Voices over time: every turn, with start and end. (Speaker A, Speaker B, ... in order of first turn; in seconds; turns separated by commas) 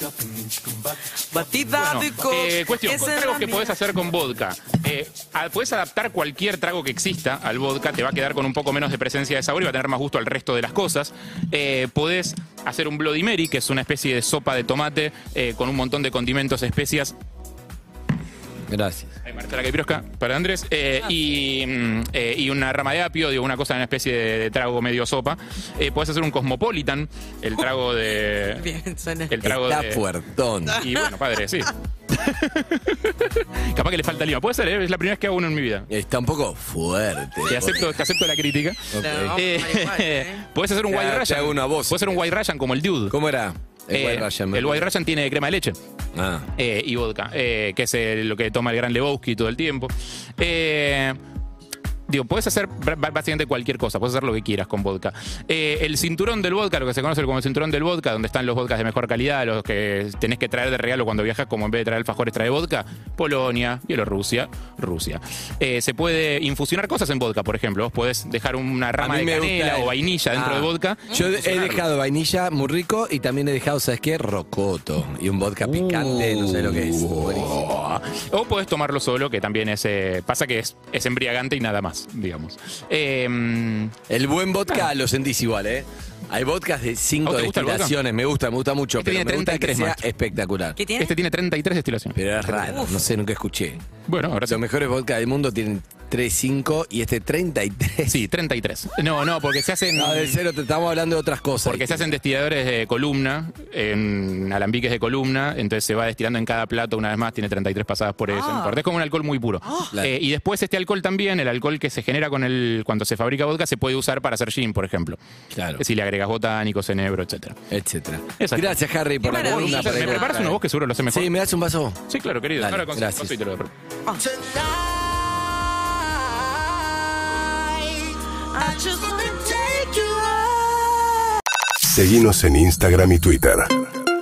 Speaker A: 1.2-3.8, Speaker B: 1.8-17.1, Speaker C: 18.7-19.1, Speaker B: 19.2-28.7, Speaker A: 28.6-29.4, Speaker B: 29.3-30.1, Speaker C: 29.4-30.9, Speaker B: 30.7-35.9, Speaker A: 30.7-31.1, Speaker C: 35.9-37.9, Speaker A: 37.4-37.9, Speaker B: 37.5-43.2, Speaker C: 38.9-39.4, Speaker A: 39.0-40.5, Speaker C: 40.9-42.2, Speaker C: 43.1-44.9, Speaker B: 43.9-45.8, Speaker C: 46.1-46.5, Speaker B: 46.5-51.2, Speaker B: 52.1-71.9, Speaker C: 69.0-77.6, Speaker B: 75.6-84.0, Speaker C: 84.1-90.8, Speaker B: 87.2-88.0, Speaker B: 89.0-90.1, Speaker A: 90.8-91.2, Speaker B: 91.0-92.9, Speaker C: 92.2-93.8, Speaker A: 92.7-93.1, Speaker B: 94.1-94.6, Speaker C: 94.5-98.2, Speaker B: 98.0-100.4, Speaker C: 100.0-102.2, Speaker B: 101.6-115.2, Speaker A: 108.3-108.8, Speaker A: 109.7-109.9, Speaker C: 115.5-115.8, Speaker B: 115.8-117.6, Speaker C: 117.7-122.0, Speaker B: 118.4-121.3, Speaker A: 119.2-120.5, Speaker B: 122.1-123.7, Speaker C: 122.6-123.4, Speaker A: 124.1-125.1, Speaker A: 127.9-131.2, Speaker D: 131.9-133.8